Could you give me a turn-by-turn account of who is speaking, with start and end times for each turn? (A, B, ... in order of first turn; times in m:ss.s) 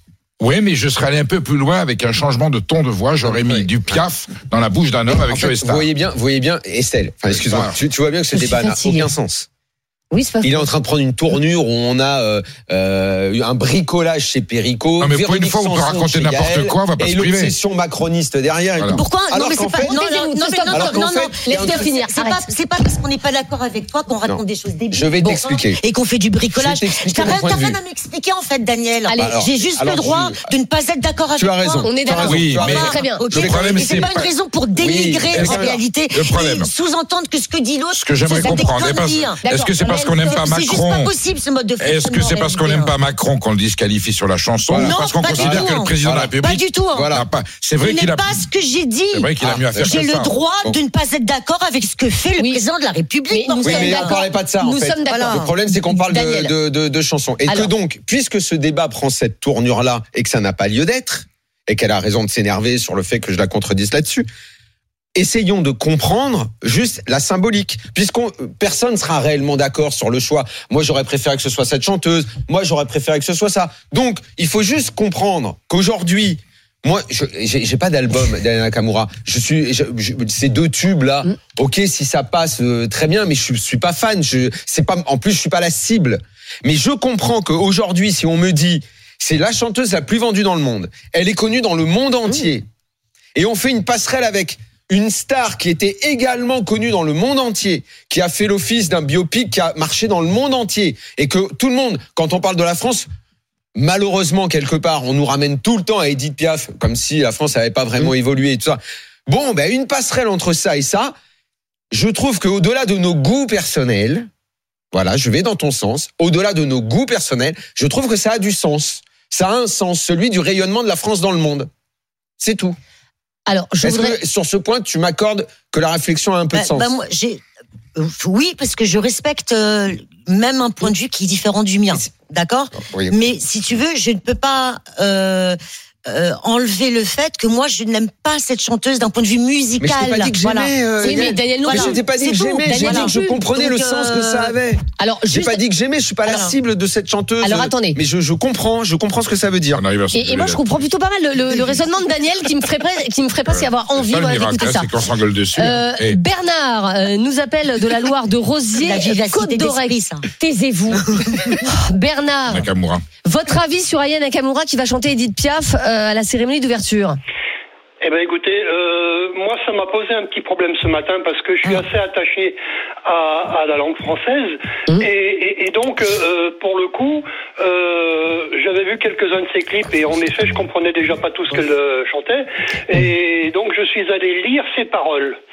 0:00.4-0:05.9 A
0:03.2-0:03.9 B
0:05.1-0:09.4 B
0:07.3-0:07.8 A
0:08.3-0:09.1 C
0:10.1-0:10.7 C
0:10.4-0:19.9 B
0:15.0-0:17.5 A
0:18.8-0:19.0 A
0:18.9-0:31.9 D
0:19.8-0:22.4 C
0:20.7-0:21.9 B
0:24.3-0:25.8 B
0:26.5-0:27.8 B
0:29.1-0:29.4 C
0:29.2-0:30.5 B
0:31.4-0:34.2 B
0:31.8-0:33.2 C
0:32.1-0:34.3 A
0:32.7-0:42.9 D
0:34.8-0:35.8 B
0:35.3-0:36.7 A
0:38.0-0:41.1 A
0:39.4-0:40.4 C
0:41.8-0:48.4 A
0:44.7-0:46.3 B
0:44.8-0:47.1 D
0:46.9-0:47.2 B
0:47.8-0:49.4 D
0:49.1-0:50.3 A
0:49.4-0:50.0 B
0:49.9-0:54.2 D
0:53.3-0:56.5 C
0:53.6-1:04.3 B
0:55.1-0:55.5 D
0:57.4-0:57.7 C
1:05.1-1:32.6 B
1:33.3-1:43.0 B
1:43.7-1:51.1 B
1:51.9-1:54.3 B
1:54.9-2:01.7 B
2:02.4-2:02.8 B
2:03.5-2:04.2 C
2:03.8-2:06.9 B
2:06.5-2:07.4 D
2:08.0-2:15.6 D
2:12.8-2:13.2 B
2:16.1-2:24.6 D
2:19.8-2:29.8 B
2:21.0-2:22.0 C
2:22.6-2:23.4 C
2:25.0-2:25.6 C
2:26.2-2:26.6 D
2:27.4-2:28.0 C
2:29.7-2:30.8 A
2:30.1-2:34.9 C
2:33.5-2:36.2 A
2:35.5-2:41.1 C
2:38.8-2:40.2 D
2:41.1-2:41.6 D
2:41.6-2:42.7 C
2:42.5-2:43.0 A
2:43.2-2:47.2 C
2:48.0-3:05.4 E